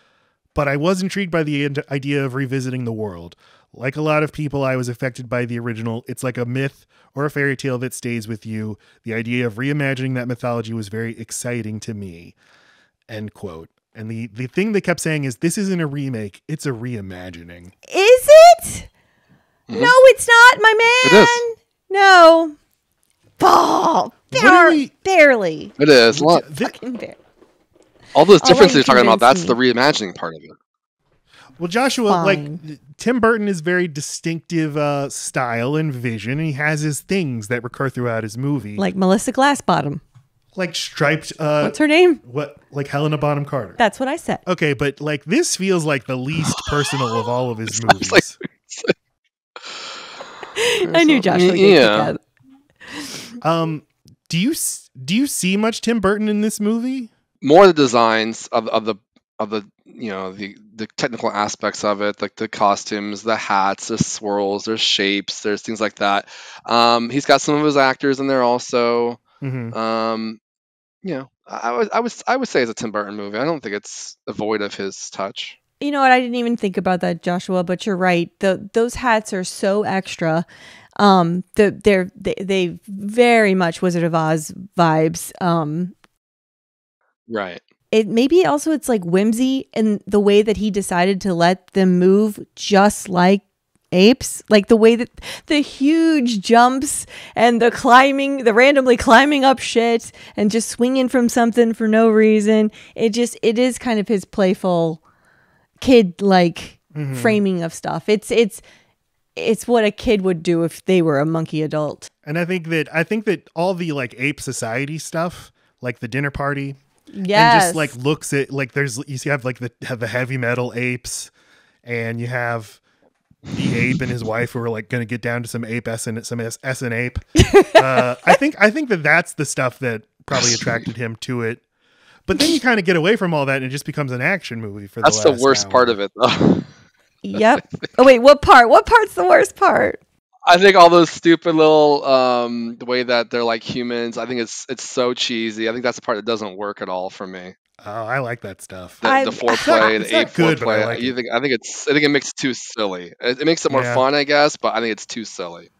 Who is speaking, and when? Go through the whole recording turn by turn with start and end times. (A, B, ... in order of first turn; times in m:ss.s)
0:00.5-0:12.4 A
0:13.1-0:17.7 A
0:17.9-0:18.9 B
0:19.7-0:19.9 C
0:19.7-0:22.5 B
0:21.0-0:21.4 C
0:23.4-0:25.7 B
0:24.3-0:24.9 A
0:25.8-0:26.5 C
0:26.1-0:26.7 A
0:26.6-0:27.2 B
0:28.1-0:30.6 C
0:28.4-0:29.6 B
0:31.6-0:38.8 A
0:32.1-0:32.6 B
0:38.8-0:40.0 B
0:40.5-0:43.8 A
0:41.6-0:42.2 B
0:43.8-0:44.4 B
0:44.4-0:48.4 A
0:47.7-0:48.9 C
0:50.5-0:52.2 B
0:50.8-0:52.1 C
0:53.4-0:57.1 A
0:57.4-1:09.2 C
1:09.4-1:09.7 A
1:09.7-1:10.4 C
1:11.0-1:15.6 C
1:15.8-1:20.4 B
1:21.0-1:25.9 B
1:27.3-1:27.6 C
1:27.9-1:45.0 B
1:45.8-1:48.6 B
1:46.9-1:47.4 A
1:49.4-1:52.1 B
1:52.2-1:56.8 A
1:57.1-1:57.9 B
1:57.3-2:01.3 A
2:01.8-2:02.8 A
2:03.5-2:11.6 A
2:07.4-2:08.4 B
2:12.2-2:16.0 A
2:15.0-2:16.7 C
2:17.2-2:20.0 B
2:20.4-2:27.5 C
2:27.8-2:29.0 A
2:29.0-2:35.7 C
2:29.0-2:29.9 B
2:29.6-2:31.1 A
2:33.7-2:34.0 A